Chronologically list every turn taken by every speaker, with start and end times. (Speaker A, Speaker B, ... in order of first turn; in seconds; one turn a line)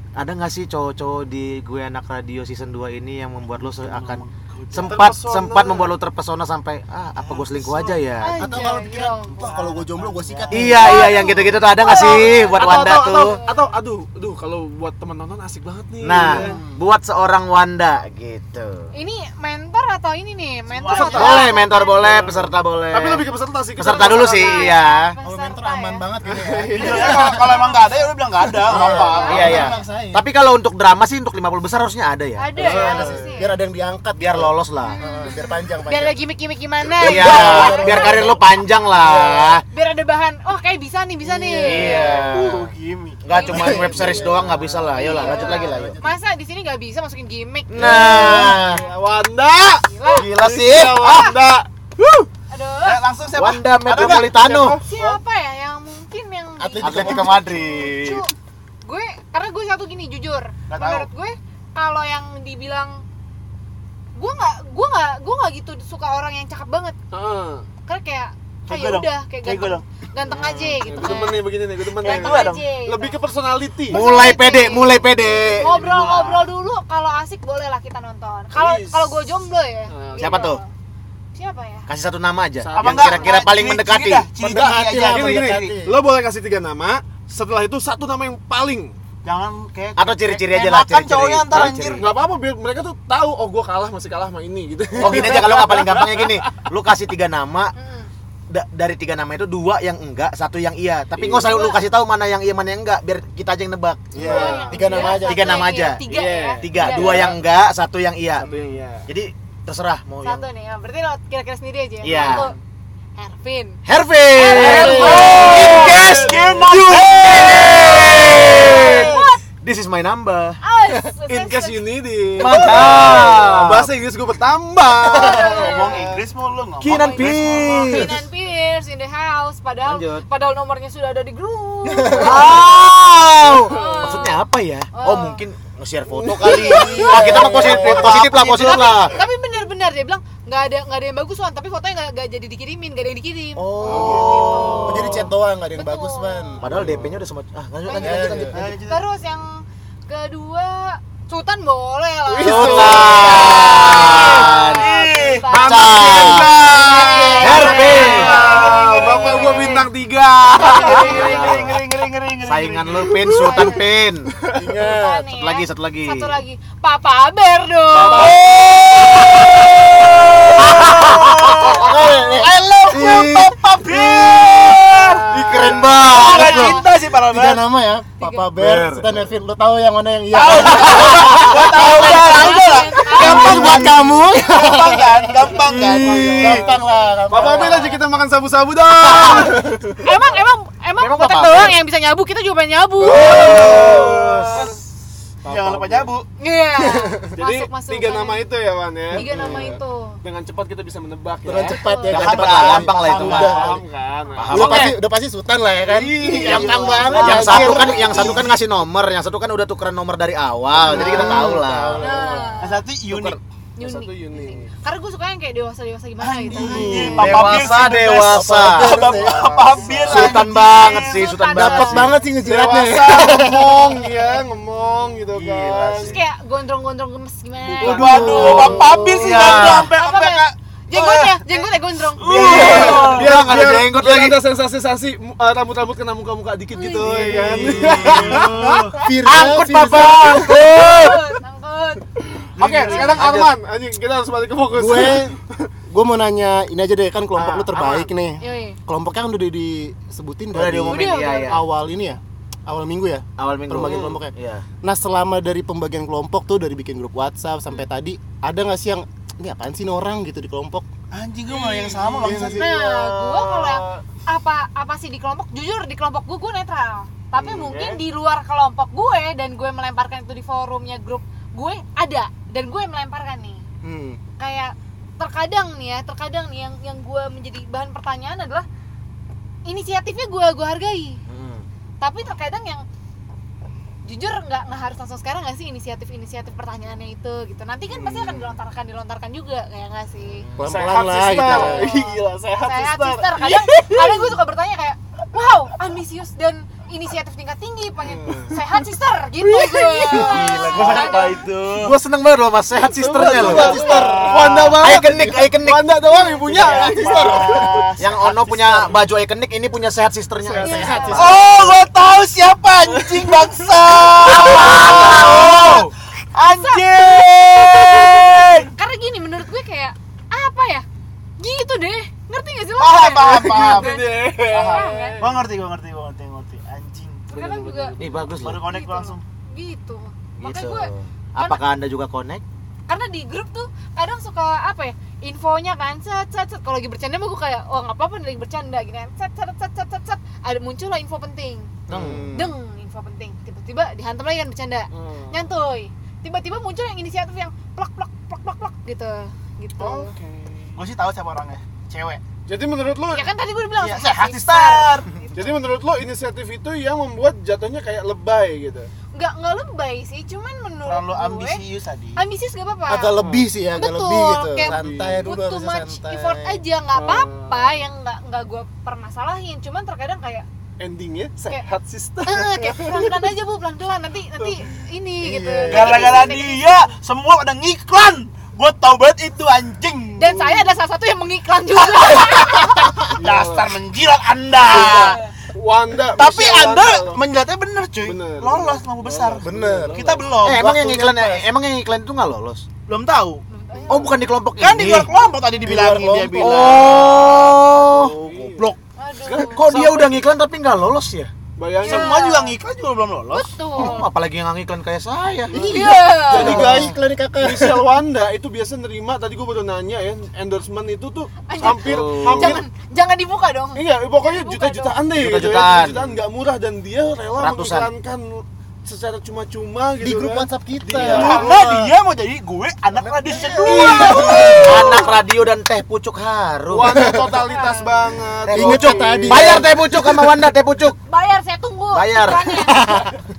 Speaker A: 0.2-8.4
Speaker B: 3.7-5.1
Speaker C: 4.8-5.9
Speaker B: 7.2-11.6
Speaker D: 8.2-9.3
Speaker E: 8.4-11.3
Speaker A: 10.5-13.4
Speaker D: 10.8-13.8
Speaker C: 12.6-16.5
Speaker A: 16.0-18.9
Speaker E: 16.1-16.8
Speaker D: 18.9-22.2
Speaker B: 20.7-21.6
Speaker C: 20.9-21.4
Speaker A: 21.1-23.3
Speaker C: 22.0-24.7
Speaker A: 23.8-25.2
Speaker D: 24.0-26.0
Speaker E: 25.2-27.7
Speaker C: 26.3-27.2
Speaker B: 26.8-29.7
Speaker D: 26.9-28.1
Speaker E: 28.4-30.2
Speaker D: 28.7-29.7
Speaker C: 28.9-29.4
Speaker A: 29.2-33.0
Speaker D: 32.4-33.5
Speaker C: 32.6-33.3
Speaker E: 32.6-36.2
Speaker A: 34.2-35.2
Speaker D: 34.8-38.3
Speaker A: 37.0-39.6
Speaker E: 37.0-38.4
Speaker E: 39.0-39.5
Speaker D: 39.7-42.3
Speaker E: 41.3-42.1
Speaker A: 41.6-42.7
Speaker B: 41.9-44.5
Speaker A: 43.2-46.0
Speaker D: 43.3-43.9
Speaker E: 43.4-46.2
Speaker D: 45.0-49.0
Speaker A: 47.7-48.9
Speaker E: 47.8-48.6
Speaker C: 48.1-52.3
Speaker D: 49.8-50.3
Speaker A: 50.1-51.3
Speaker D: 51.0-51.4
Speaker D: 52.5-53.0
Speaker B: 52.8-54.4
Speaker A: 53.4-54.8
Speaker C: 54.0-54.8
Speaker D: 54.8-58.3
Speaker E: 56.6-57.6
Speaker A: 56.8-58.2
Speaker D: 58.8-63.0
Speaker B: 60.7-61.1
Speaker D: 64.2-67.0
Speaker C: 67.1-67.7
Speaker D: 67.9-71.5
Speaker B: 68.7-69.9
Speaker C: 70.8-74.0
Speaker B: 72.0-72.7
Speaker D: 72.0-73.2
Speaker A: 73.9-75.8
Speaker D: 73.9-75.0
Speaker B: 75.4-76.5
Speaker D: 75.6-80.7
Speaker C: 78.5-79.2
Speaker C: 79.9-80.4
Speaker A: 80.2-80.6
Speaker D: 81.3-81.9
Speaker A: 81.9-84.3
Speaker C: 82.6-83.3
Speaker B: 82.8-85.8
Speaker E: 84.4-86.0
Speaker C: 84.5-89.0
Speaker B: 89.2-92.1
Speaker A: 90.0-92.1
Speaker C: 91.6-96.7
Speaker A: 95.0-97.7
Speaker D: 97.8-98.1
Speaker A: 98.5-110.4
Speaker C: 101.2-101.5
Speaker D: 101.4-101.9
Speaker E: 104.2-105.6
Speaker C: 104.2-105.0
Speaker D: 104.2-107.3
Speaker C: 106.0-107.3
Speaker C: 108.4-109.1
Speaker D: 110.2-112.5
Speaker A: 112.0-112.5
Speaker D: 113.2-113.8
Speaker A: 113.8-120.6
Speaker D: 114.3-116.0
Speaker C: 114.5-116.6
Speaker B: 114.6-118.8
Speaker E: 114.7-115.3
Speaker C: 118.5-119.2
Speaker D: 118.6-119.4
Speaker D: 120.6-123.0
Speaker C: 121.3-126.2
Speaker A: 122.4-123.9
Speaker B: 125.1-128.0
Speaker D: 125.1-126.1
Speaker A: 126.8-128.2
Speaker D: 126.9-132.9
Speaker A: 129.8-130.2
Speaker E: 131.9-132.4
Speaker A: 132.2-139.2
Speaker C: 133.5-134.2
Speaker D: 133.6-135.4
Speaker C: 136.1-137.9
Speaker D: 136.4-137.2
Speaker E: 137.0-138.2
Speaker B: 137.1-139.1
Speaker D: 138.7-146.7
Speaker A: 143.6-145.3
Speaker C: 143.8-144.9
Speaker E: 144.8-147.0
Speaker A: 146.6-148.6
Speaker D: 147.9-159.9
Speaker E: 147.9-148.6
Speaker B: 148.5-149.0
Speaker C: 152.3-154.9
Speaker A: 152.4-154.9
Speaker B: 153.1-155.5
Speaker C: 155.5-161.3
Speaker A: 155.5-156.8
Speaker E: 156.8-157.8
Speaker A: 157.4-158.4
Speaker B: 157.5-159.8
Speaker D: 160.6-161.7
Speaker B: 160.6-163.4
Speaker A: 161.1-161.8
Speaker A: 162.4-164.3
Speaker D: 163.3-163.9
Speaker C: 164.4-164.7
Speaker E: 164.5-165.3
Speaker D: 164.8-168.4
Speaker A: 165.3-166.4
Speaker E: 168.0-168.4
Speaker B: 168.0-177.6
Speaker A: 168.9-169.4
Speaker E: 169.1-169.6
Speaker E: 170.6-182.4
Speaker A: 170.8-171.3
Speaker C: 175.3-175.8
Speaker A: 175.4-176.8
Speaker D: 176.5-176.7
Speaker D: 178.2-178.5
Speaker A: 178.6-179.2
Speaker B: 180.3-186.7
Speaker D: 180.8-183.9
Speaker E: 183.0-188.0
Speaker C: 183.2-184.0
Speaker C: 185.7-190.1
Speaker D: 186.8-187.2
Speaker E: 189.1-189.5
Speaker D: 190.0-193.8
Speaker A: 191.0-191.8
Speaker C: 193.0-194.8
Speaker A: 193.2-194.6
Speaker B: 193.4-194.7
Speaker E: 193.6-193.9
Speaker C: 195.4-196.1
Speaker B: 195.4-196.3
Speaker D: 196.4-198.5
Speaker E: 196.8-197.2
Speaker C: 197.4-201.8
Speaker D: 199.1-200.2
Speaker E: 199.2-199.8
Speaker E: 201.4-203.8
Speaker D: 201.7-202.5
Speaker A: 202.1-203.7
Speaker B: 202.6-203.8
Speaker C: 203.0-204.9
Speaker A: 204.4-205.0
Speaker E: 204.5-208.5
Speaker C: 205.8-208.3
Speaker B: 206.2-208.6
Speaker A: 207.1-212.1
Speaker E: 210.8-212.5
Speaker B: 210.8-211.5
Speaker D: 212.0-212.8
Speaker B: 212.6-213.4
Speaker A: 213.1-213.4
Speaker D: 213.8-217.3
Speaker C: 213.8-214.7
Speaker B: 216.2-221.3
Speaker E: 216.4-217.6
Speaker A: 216.8-219.1
Speaker E: 218.3-220.4
Speaker C: 219.0-220.1
Speaker A: 220.0-222.2
Speaker D: 221.0-222.2
Speaker E: 221.5-223.9
Speaker C: 222.4-226.2
Speaker D: 224.7-225.2
Speaker A: 225.3-226.2
Speaker D: 226.0-228.7
Speaker C: 227.7-229.0
Speaker B: 227.8-233.5
Speaker E: 228.1-228.9
Speaker A: 228.3-229.9
Speaker D: 229.7-232.6
Speaker C: 232.2-241.0
Speaker A: 232.3-234.4
Speaker D: 236.7-237.7
Speaker B: 237.1-239.0
Speaker E: 237.5-238.5
Speaker E: 239.0-240.6
Speaker A: 239.3-241.0
Speaker D: 240.5-243.3
Speaker C: 242.6-245.4
Speaker A: 242.6-243.5
Speaker B: 242.6-243.2
Speaker E: 244.7-260.9
Speaker C: 247.3-248.1
Speaker D: 248.4-248.8
Speaker A: 250.5-251.6
Speaker D: 250.9-251.6
Speaker A: 253.4-254.7
Speaker B: 261.1-263.8
Speaker C: 261.5-262.4
Speaker E: 262.1-262.7
Speaker D: 262.4-273.6
Speaker C: 267.4-268.0
Speaker E: 273.8-274.2
Speaker D: 274.4-278.7
Speaker D: 279.7-281.2
Speaker A: 281.3-281.7
Speaker D: 282.0-282.9
Speaker D: 284.1-290.5
Speaker A: 287.9-288.6
Speaker A: 290.2-291.0
Speaker E: 290.6-292.0
Speaker C: 290.6-294.3
Speaker D: 291.3-301.5
Speaker C: 298.2-298.6
Speaker C: 299.6-300.3
Speaker B: 300.1-302.0
Speaker A: 300.2-303.9
Speaker C: 302.9-307.9
Speaker E: 303.2-304.6
Speaker B: 303.4-305.1
Speaker A: 304.5-306.0
Speaker D: 306.1-306.4
Speaker B: 306.4-309.1
Speaker E: 307.1-307.6
Speaker A: 308.0-311.4
Speaker C: 310.4-311.2
Speaker D: 310.6-311.4
Speaker E: 310.6-311.4
Speaker B: 311.1-318.7
Speaker C: 312.9-313.5
Speaker A: 314.3-315.9
Speaker C: 314.3-315.5
Speaker D: 315.2-315.5
Speaker D: 316.4-320.9
Speaker D: 321.4-325.2
Speaker B: 322.8-327.3
Speaker C: 323.2-325.4
Speaker D: 327.3-328.0
Speaker C: 327.3-328.3
Speaker A: 328.0-328.7
Speaker B: 328.4-329.2
Speaker D: 328.5-331.7
Speaker A: 330.4-332.4
Speaker D: 332.9-350.1
Speaker A: 341.9-342.5
Speaker C: 341.9-342.3
Speaker E: 342.0-342.3
Speaker C: 344.9-345.5
Speaker C: 349.8-350.8
Speaker B: 350.8-352.2
Speaker C: 352.5-353.3
Speaker D: 353.1-355.6
Speaker B: 353.8-355.1
Speaker C: 355.4-358.9
Speaker D: 359.1-361.6
Speaker B: 360.8-362.3
Speaker D: 362.2-363.2
Speaker E: 362.9-366.6
Speaker C: 363.2-363.5
Speaker D: 363.7-370.5
Speaker C: 364.6-365.3
Speaker C: 366.9-367.8
Speaker C: 370.8-373.1
Speaker D: 372.2-376.9
Speaker E: 375.2-376.1
Speaker B: 375.7-380.6
Speaker D: 380.2-383.0
Speaker B: 382.1-385.2
Speaker C: 383.1-383.8
Speaker C: 384.6-387.2
Speaker D: 384.7-385.3
Speaker B: 386.1-391.5
Speaker C: 388.0-390.3
Speaker E: 389.4-390.0
Speaker A: 390.4-392.7
Speaker B: 392.9-393.4
Speaker D: 393.5-394.2
Speaker A: 393.9-395.1
Speaker B: 394.6-398.8
Speaker E: 395.6-396.9
Speaker A: 396.4-398.2
Speaker C: 398.0-398.7
Speaker D: 399.0-399.7
Speaker C: 399.3-400.2
Speaker A: 399.5-401.3
Speaker C: 401.6-402.2
Speaker D: 401.8-402.6
Speaker B: 401.8-403.8
Speaker D: 403.3-404.1
Speaker A: 403.8-405.9
Speaker E: 405.5-407.9
Speaker C: 405.5-412.6
Speaker D: 405.7-406.7
Speaker D: 411.5-415.0
Speaker A: 411.8-412.6
Speaker C: 413.8-421.6
Speaker A: 415.1-416.1
Speaker A: 417.4-417.9
Speaker E: 420.0-421.9
Speaker A: 421.0-421.3
Speaker B: 421.0-425.1
Speaker E: 423.0-425.0
Speaker C: 423.7-424.6
Speaker A: 424.6-427.1
Speaker C: 426.7-429.7
Speaker E: 426.9-427.4
Speaker D: 427.4-428.1
Speaker A: 428.4-431.0
Speaker E: 428.5-430.4
Speaker D: 431.1-432.8
Speaker A: 431.9-432.8
Speaker E: 432.7-433.1